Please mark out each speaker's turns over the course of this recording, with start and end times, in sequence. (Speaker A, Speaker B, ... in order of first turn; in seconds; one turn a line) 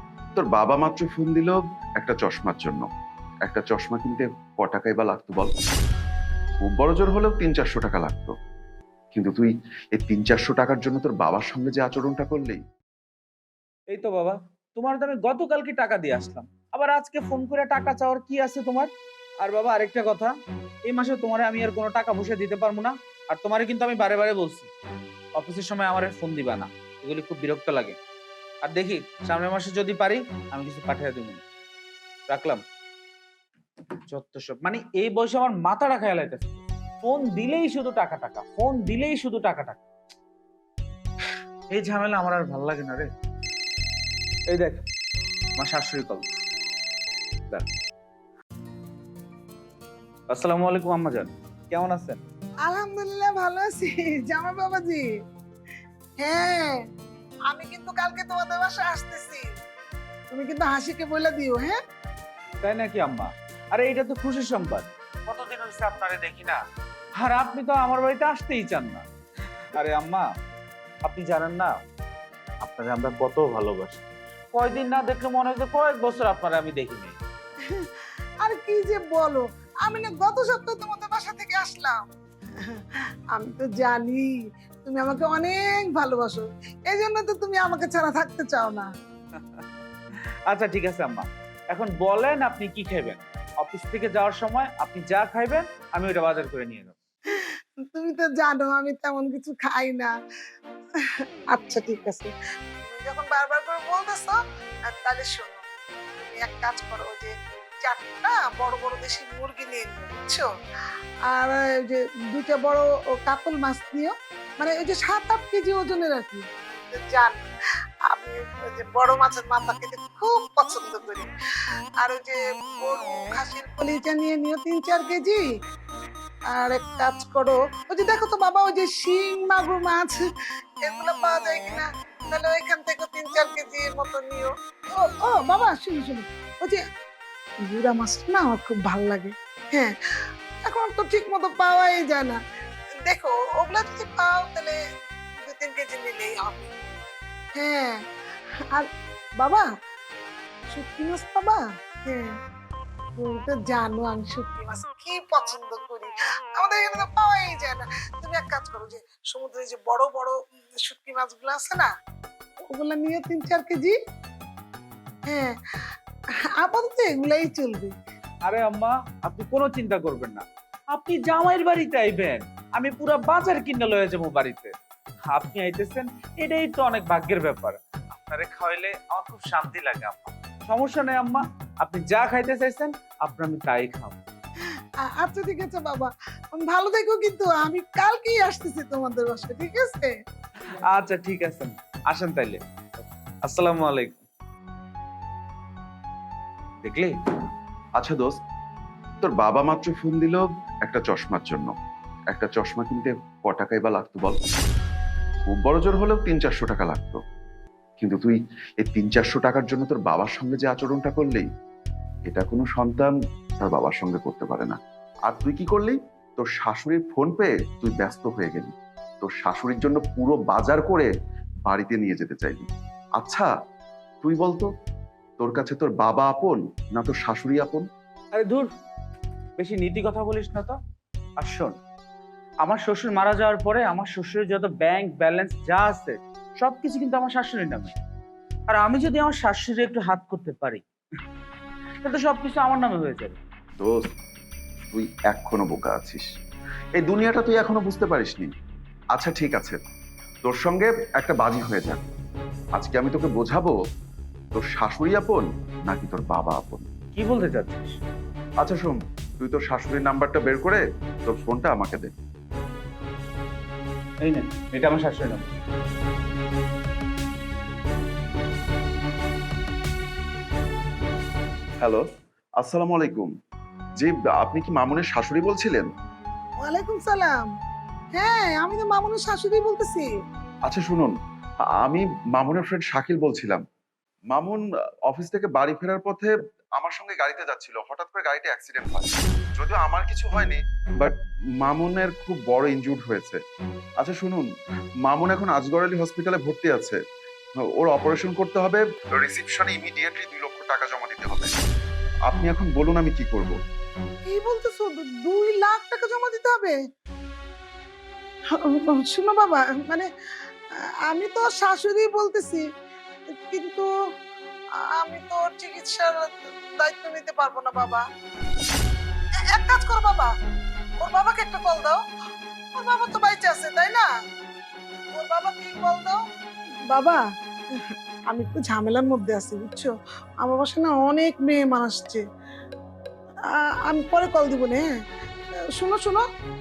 Speaker A: 0.3-2.9
Speaker A: 3.4-5.5
Speaker A: 6.6-8.3
Speaker A: 9.1-12.6
Speaker B: 13.9-18.9
Speaker B: 19.4-20.3
Speaker B: 20.9-24.7
Speaker B: 25.4-27.9
Speaker B: 28.6-31.4
Speaker B: 32.3-32.6
Speaker B: 34.1-39.8
Speaker B: 41.7-43.1
Speaker B: 44.5-44.8
Speaker B: 45.6-46.2
Speaker B: 50.3-52.2
Speaker C: 52.6-55.0
Speaker C: 56.2-56.8
Speaker C: 57.5-59.5
Speaker C: 60.3-61.8
Speaker B: 62.6-66.6
Speaker B: 67.2-69.0
Speaker B: 69.8-70.3
Speaker B: 71.0-71.8
Speaker B: 72.6-77.2
Speaker C: 77.7-82.0
Speaker C: 82.6-84.3
Speaker C: 84.8-88.9
Speaker B: 89.3-89.6
Speaker B: 90.5-96.9
Speaker C: 97.3-100.1
Speaker C: 101.5-104.4
Speaker C: 104.9-105.6
Speaker C: 106.3-107.3
Speaker C: 107.8-110.5
Speaker C: 111.3-117.4
Speaker C: 118.1-121.3
Speaker C: 122.0-125.4
Speaker C: 126.5-130.2
Speaker C: 130.8-136.8
Speaker C: 137.7-139.9
Speaker C: 140.6-142.4
Speaker C: 143.0-144.8
Speaker C: 145.5-146.7
Speaker C: 147.5-148.0
Speaker C: 149.4-149.7
Speaker C: 150.7-152.3
Speaker C: 153.2-161.9
Speaker C: 162.7-163.9
Speaker C: 165.2-165.5
Speaker C: 166.6-167.9
Speaker B: 168.4-174.7
Speaker B: 175.3-184.2
Speaker C: 185.0-190.1
Speaker B: 190.9-192.6
Speaker B: 193.4-194.2
Speaker B: 196.8-197.2
Speaker A: 198.0-198.3
Speaker A: 199.2-201.7
Speaker A: 202.3-204.4
Speaker A: 205.4-207.2
Speaker A: 208.0-211.5
Speaker A: 212.3-221.1
Speaker A: 221.7-223.5
Speaker A: 224.2-224.7
Speaker A: 225.4-227.8
Speaker B: 228.3-228.7
Speaker B: 229.6-230.8
Speaker B: 231.4-231.7
Speaker B: 232.6-237.9
Speaker B: 238.7-240.8
Speaker B: 242.0-243.4
Speaker A: 243.8-244.0
Speaker A: 244.9-246.3
Speaker A: 247.0-248.5
Speaker A: 249.1-249.8
Speaker A: 250.4-252.1
Speaker A: 252.8-253.7
Speaker A: 254.5-256.9
Speaker B: 257.1-258.0
Speaker A: 258.6-262.1
Speaker B: 264.2-265.6
Speaker A: 271.8-272.0
Speaker A: 272.6-273.3
Speaker A: 274.0-275.9
Speaker C: 276.6-277.5
Speaker C: 278.1-280.1
Speaker A: 280.7-281.1
Speaker A: 281.8-283.6
Speaker A: 284.3-293.4
Speaker A: 294.0-294.5
Speaker A: 295.0-297.0
Speaker A: 297.7-301.5
Speaker A: 302.3-303.5
Speaker C: 304.3-306.8
Speaker C: 308.6-310.1
Speaker C: 311.1-312.6
Speaker C: 313.5-313.9
Speaker C: 314.9-318.0
Speaker C: 319.5-320.3
Speaker C: 321.0-322.0
Speaker C: 322.7-324.1
Speaker C: 325.1-326.2
Speaker C: 326.9-327.2
Speaker C: 327.8-332.2
Speaker C: 333.5-334.9
Speaker C: 335.8-336.2